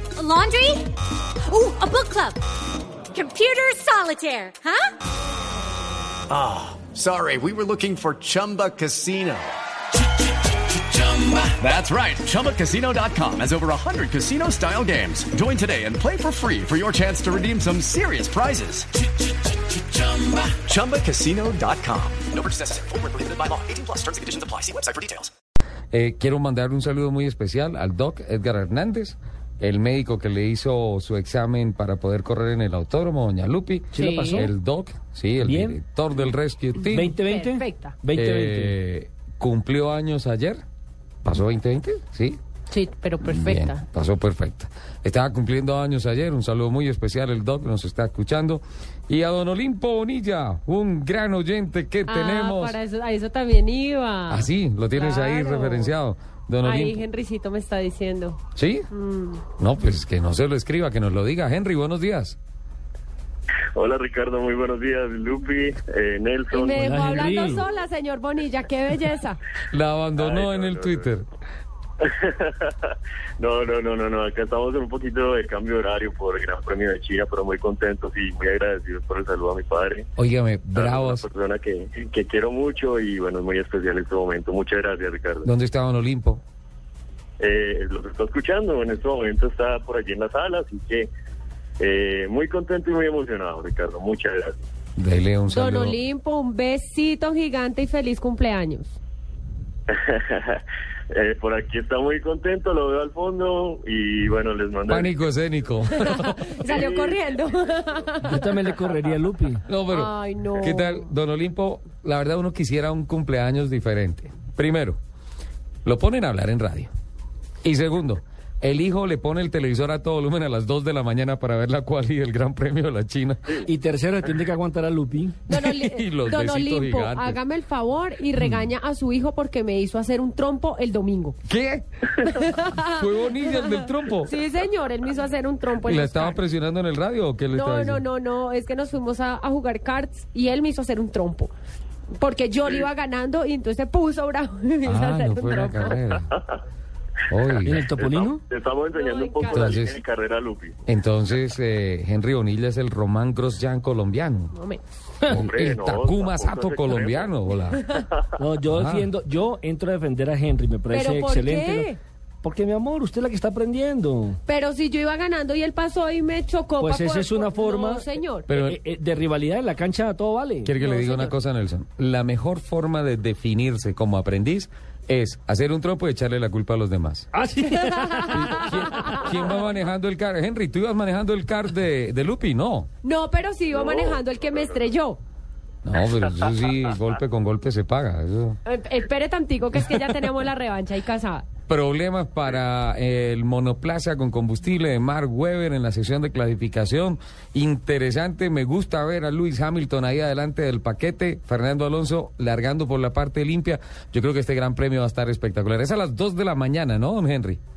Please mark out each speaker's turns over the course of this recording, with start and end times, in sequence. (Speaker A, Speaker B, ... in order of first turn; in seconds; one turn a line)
Speaker A: 0.1-0.9
Speaker A: 1.4-2.4
Speaker A: 3.1-4.9
Speaker B: 6.3-9.5
Speaker B: 10.7-18.9
Speaker B: 19.7-25.3
Speaker C: 25.9-37.1
Speaker D: 33.9-34.5
Speaker E: 33.9-34.5
Speaker D: 35.4-35.8
Speaker D: 36.9-38.7
Speaker E: 36.9-38.0
Speaker C: 38.1-40.6
Speaker C: 41.2-42.4
Speaker E: 42.7-43.8
Speaker C: 43.2-52.8
Speaker E: 52.1-55.9
Speaker C: 54.3-57.0
Speaker E: 56.6-59.4
Speaker C: 58.5-58.9
Speaker C: 59.6-62.4
Speaker F: 63.7-67.6
Speaker E: 66.5-69.4
Speaker D: 66.6-67.6
Speaker C: 69.7-71.3
Speaker F: 70.2-71.1
Speaker F: 72.0-80.1
Speaker C: 80.2-81.2
Speaker F: 80.7-85.5
Speaker C: 85.4-86.4
Speaker F: 87.4-91.1
Speaker F: 91.8-94.5
Speaker C: 95.0-96.0
Speaker E: 95.5-98.9
Speaker F: 99.9-105.2
Speaker C: 104.9-106.4
Speaker E: 105.9-108.5
Speaker F: 106.6-108.0
Speaker D: 108.2-109.6
Speaker C: 109.7-115.0
Speaker E: 109.9-111.1
Speaker C: 115.8-116.9
Speaker C: 117.6-123.5
Speaker D: 123.6-125.4
Speaker C: 125.5-127.4
Speaker E: 125.5-131.4
Speaker C: 131.4-134.3
Speaker E: 132.2-136.4
Speaker C: 135.8-138.0
Speaker E: 137.5-141.5
Speaker E: 142.2-146.0
Speaker C: 144.8-146.3
Speaker C: 147.3-147.9
Speaker D: 147.6-148.4
Speaker F: 147.9-150.8
Speaker E: 148.9-149.8
Speaker C: 149.4-150.0
Speaker C: 150.9-154.5
Speaker E: 154.5-154.8
Speaker C: 155.2-157.9
Speaker F: 155.3-157.3
Speaker D: 158.4-161.9
Speaker C: 158.7-159.1
Speaker E: 160.9-162.0
Speaker D: 162.4-164.4
Speaker E: 164.5-168.5
Speaker D: 166.8-168.1
Speaker C: 168.5-168.8
Speaker D: 168.6-170.7
Speaker C: 170.6-177.3
Speaker E: 170.8-171.3
Speaker D: 177.3-179.3
Speaker E: 177.8-178.6
Speaker C: 178.2-182.9
Speaker E: 183.0-185.2
Speaker F: 183.7-184.7
Speaker C: 185.8-188.6
Speaker E: 188.6-191.5
Speaker C: 191.7-207.6